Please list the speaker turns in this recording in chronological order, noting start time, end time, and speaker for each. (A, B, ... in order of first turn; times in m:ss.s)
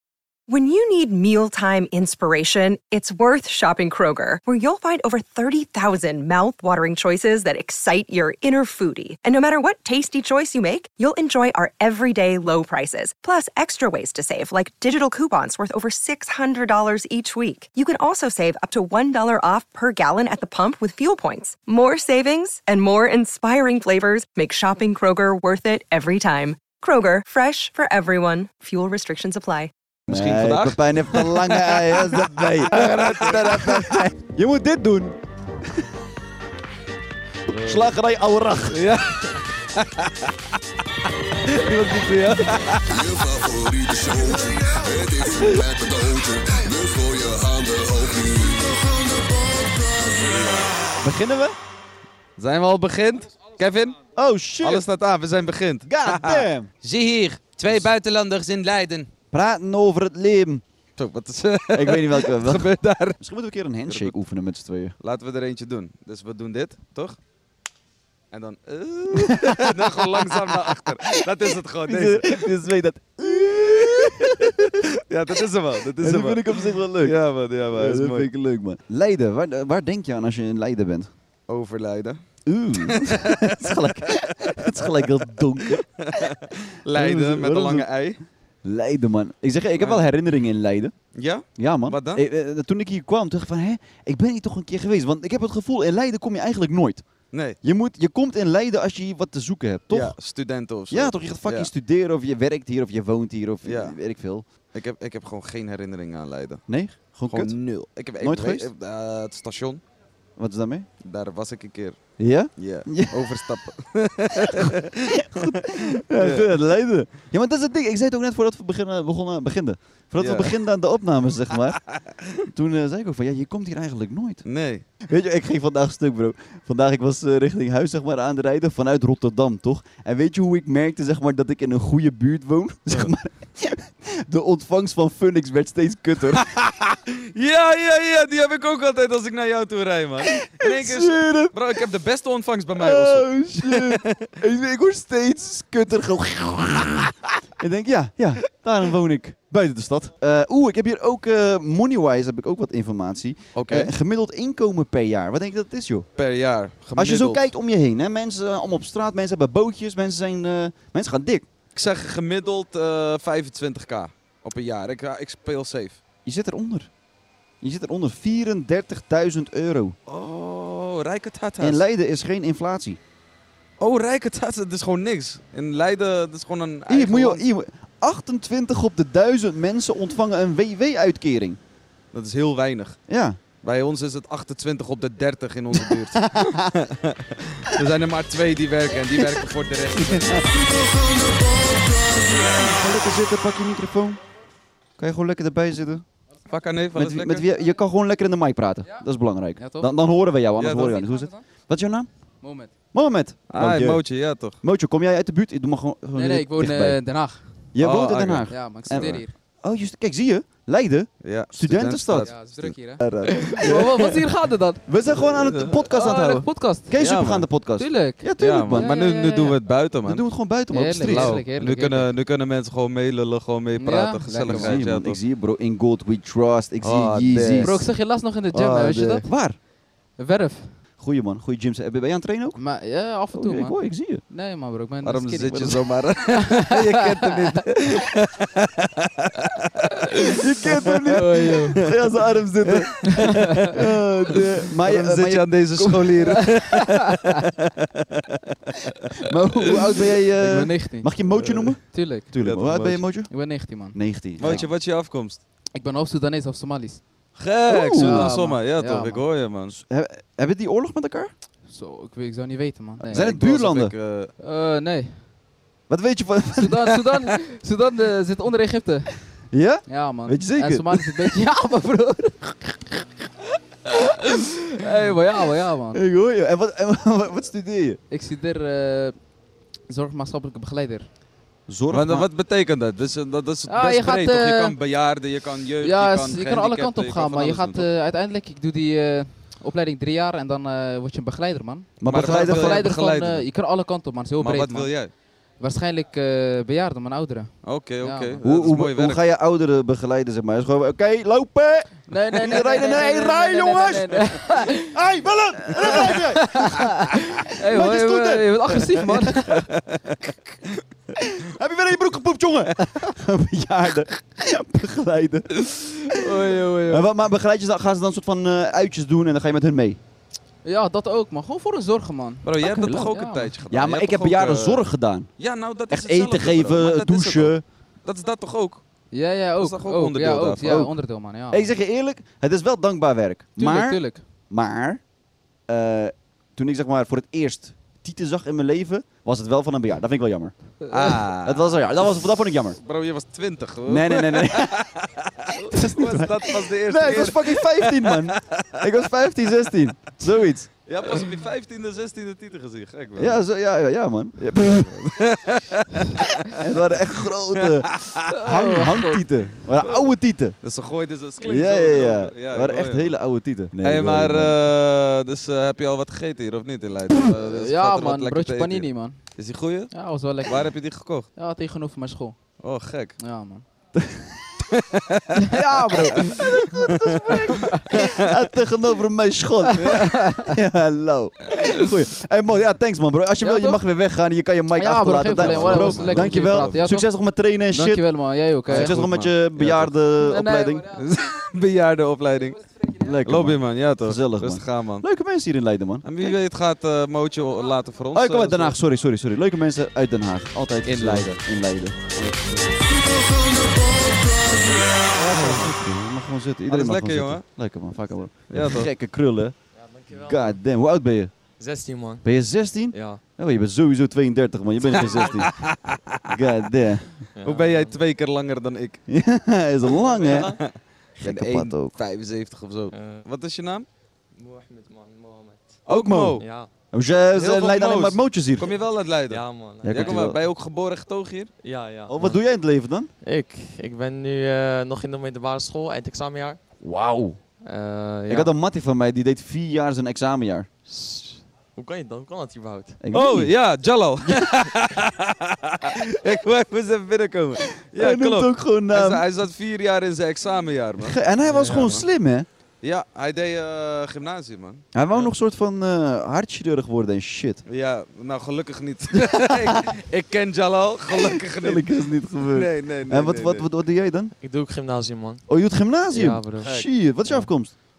0:00.5-0:29.7 A
0:30.1-0:34.1 B
0:30.1-0:35.2 C
0:37.5-0:38.8 C
0:37.5-0:37.9 B
0:38.7-0:40.3 B
0:41.4-0:43.1 B
0:42.9-0:50.8 D
0:51.0-0:51.6 C
0:52.4-0:54.0 B
0:54.1-0:54.8 C
0:54.6-0:59.1 B
0:55.8-0:56.7 C
0:59.3-1:00.6 C
1:01.0-1:03.2 B
1:01.7-1:04.9 C
1:03.9-1:04.1 B
1:05.0-1:07.2 B
1:08.3-1:12.5 B
1:09.1-1:14.8 C
1:14.9-1:18.3 B
1:16.0-1:17.2 C
1:17.7-1:21.1 C
1:21.5-1:22.2 B
1:22.4-1:26.3 C
1:22.8-1:23.7 B
1:24.4-1:28.2 B
1:26.9-1:27.9 C
1:28.6-1:30.9 C
1:29.8-1:30.0 B
1:31.1-1:32.2 B
1:31.5-1:37.1 C
1:37.3-1:37.6 B
1:37.6-1:40.2 C
1:39.9-1:41.7 B
1:40.9-1:44.5 C
1:43.6-1:44.0 B
1:44.6-1:46.6 B
1:46.7-1:48.7 C
1:47.2-1:49.8 B
1:50.4-1:50.9 C
1:51.0-1:52.0 B
1:52.2-1:53.4 C
1:52.6-1:56.5 B
1:54.3-2:01.8 C
2:00.2-2:00.5 B
2:01.8-2:02.4 B
2:02.4-2:04.4 C
2:04.4-2:04.8 B
2:05.0-2:16.5 C
2:16.4-2:24.3 B
2:20.4-2:21.6 C
2:22.8-2:36.1 C
2:33.5-2:33.9 B
2:36.2-2:37.4 B
2:36.9-2:41.5 C
2:41.7-2:46.0 B
2:46.2-2:46.9 C
2:47.6-2:50.0 C
2:50.1-2:51.8 B
2:51.6-2:53.0 C
2:53.8-2:57.4 B
2:56.9-3:01.6 C
3:02.1-3:03.0 B
3:03.1-3:03.4 C
3:03.5-3:10.5 B
3:05.8-3:06.7 C
3:10.0-3:10.4 C
3:12.4-3:14.2 C
3:15.0-3:16.0 C
3:16.5-3:17.4 B
3:16.9-3:22.1 C
3:19.6-3:19.9 E
3:20.6-3:21.0 B
3:20.8-3:21.4 E
3:22.4-3:22.7 E
3:22.6-3:27.0 C
3:23.5-3:24.6 B
3:26.2-3:27.6 E
3:27.7-3:34.1 C
3:27.8-3:29.2 B
3:28.5-3:29.3 E
3:31.2-3:32.7 B
3:32.2-3:34.8 E
3:34.9-3:38.9 C
3:35.2-3:35.8 B
3:35.9-3:37.0 E
3:37.0-3:37.4 B
3:37.8-3:39.6 E
3:38.4-3:40.3 B
3:40.0-3:41.4 C
3:40.7-3:42.1 E
3:41.0-3:45.2 B
3:43.8-3:44.8 E
3:44.4-3:49.6 C
3:46.8-3:47.9 B
3:47.6-3:49.3 E
3:50.2-3:50.8 E
3:51.0-3:52.6 C
3:52.5-3:57.6 E
3:53.3-3:54.2 C
3:55.0-4:02.1 B
4:00.4-4:06.5 C
4:01.1-4:01.8 E
4:02.6-4:08.3 B
4:09.2-4:14.7 C
4:10.4-4:12.3 E
4:12.4-4:13.0 B
4:13.3-4:14.7 E
4:14.4-4:15.4 B
4:15.7-4:17.0 E
4:17.4-4:19.7 B
4:17.7-4:18.4 C
4:17.9-4:19.2 E
4:19.7-4:21.3 C
4:21.7-4:23.2 E
4:23.1-4:23.9 C
4:23.1-4:24.3 B
4:24.4-4:25.2 E
4:25.9-4:26.8 C
4:26.6-4:29.3 E
4:29.5-4:31.3 C
4:29.8-4:33.0 E
4:34.8-4:36.0 E
4:35.9-4:38.0 C
4:38.1-4:39.2 E
4:39.9-4:41.1 E
4:41.7-4:42.3 C
4:41.9-4:47.8 B
4:43.7-4:44.8 E
4:45.8-4:55.0 E
4:52.0-4:52.9 C
4:52.0-4:53.4 B
4:54.4-4:55.1 B
4:55.6-4:58.4 E
4:57.6-4:59.2 B
4:58.4-5:07.0 C
5:02.1-5:04.9 E
5:05.7-5:09.6 E
5:07.7-5:09.3 C
5:09.9-5:10.7 B
5:11.2-5:15.6 C
5:15.6-5:16.9 B
5:16.4-5:17.0 E
5:16.4-5:20.0 C
5:20.6-5:23.5 E
5:22.4-5:24.8 B
5:22.6-5:23.2 C
5:23.7-5:25.3 C
5:25.4-5:28.8 B
5:25.9-5:27.6 C
5:29.1-5:31.7 E
5:29.6-5:30.9 B
5:30.6-5:30.9 C
5:31.5-5:35.0 C
5:33.6-5:34.2 E
5:35.7-5:42.8 C
5:40.8-5:41.2 E
5:40.9-5:41.8 B
5:42.8-5:48.8 B
5:43.9-5:44.9 C
5:45.6-5:50.7 C
5:50.8-5:53.4 B
5:53.2-5:55.4 C
5:55.2-5:56.6 B
5:56.5-6:00.6 C
5:57.6-5:58.2 B
5:58.3-5:59.2 E
6:00.6-6:03.1 B
6:01.4-6:04.5 C
6:03.8-6:11.3 B
6:07.1-6:09.2 E
6:09.9-6:12.4 E
6:12.6-6:13.2 B
6:13.2-6:13.6 E
6:13.9-6:14.5 C
6:14.7-6:15.6 B
6:15.5-6:28.1 C
6:15.6-6:16.4 E
6:16.2-6:17.2 B
6:17.3-6:18.0 E
6:17.9-6:18.2 B
6:19.8-6:20.5 E
6:23.4-6:23.8 E
6:24.7-6:27.1 E
6:25.4-6:26.8 B
6:27.7-6:29.0 E
6:28.7-6:29.9 B
6:28.7-6:30.9 C
6:30.2-6:31.1 E
6:30.9-6:32.6 B
6:32.5-6:33.1 E
6:33.0-6:36.0 C
6:33.2-6:35.0 B
6:36.0-6:38.8 B
6:38.1-6:42.4 C
6:40.8-6:41.3 B
6:42.2-6:42.6 B
6:43.4-6:44.2 D
6:45.2-6:45.7 B
6:45.3-6:49.5 C
6:45.3-6:45.6 F
6:46.7-6:47.4 B
6:48.5-6:48.9 B
6:49.8-6:50.6 F
6:50.1-6:51.3 C
6:51.6-6:52.2 F
6:52.2-6:55.5 C
6:52.9-6:53.2 F
6:54.9-6:56.4 B
6:54.9-6:55.5 F
6:56.3-6:57.1 C
6:57.4-6:58.0 F
6:57.4-6:59.0 B
6:59.1-7:00.6 C
7:00.0-7:00.6 F
7:00.4-7:03.8 B
7:01.2-7:02.0 C
7:02.9-7:03.2 F
7:04.4-7:05.8 F
7:05.9-7:08.7 C
7:05.9-7:06.4 B
7:06.4-7:06.7 F
7:07.3-7:11.5 B
7:09.3-7:10.3 F
7:09.8-7:10.4 C
7:11.6-7:12.4 F
7:12.1-7:13.1 C
7:13.2-7:16.6 F
7:16.8-7:17.4 C
7:17.6-7:18.5 F
7:18.3-7:20.7 C
7:20.9-7:23.0 F
7:23.0-7:23.5 C
7:23.1-7:32.0 B
7:27.8-7:29.2 C
7:31.0-7:32.5 C
7:31.5-7:32.0 F
7:32.8-7:34.8 B
7:34.9-7:37.6 C
7:37.6-7:41.9 B
7:39.2-7:39.8 C
7:41.1-7:44.3 C
7:42.5-7:43.6 B
7:44.4-7:45.4 F
7:45.5-7:47.7 C
7:46.1-7:46.8 F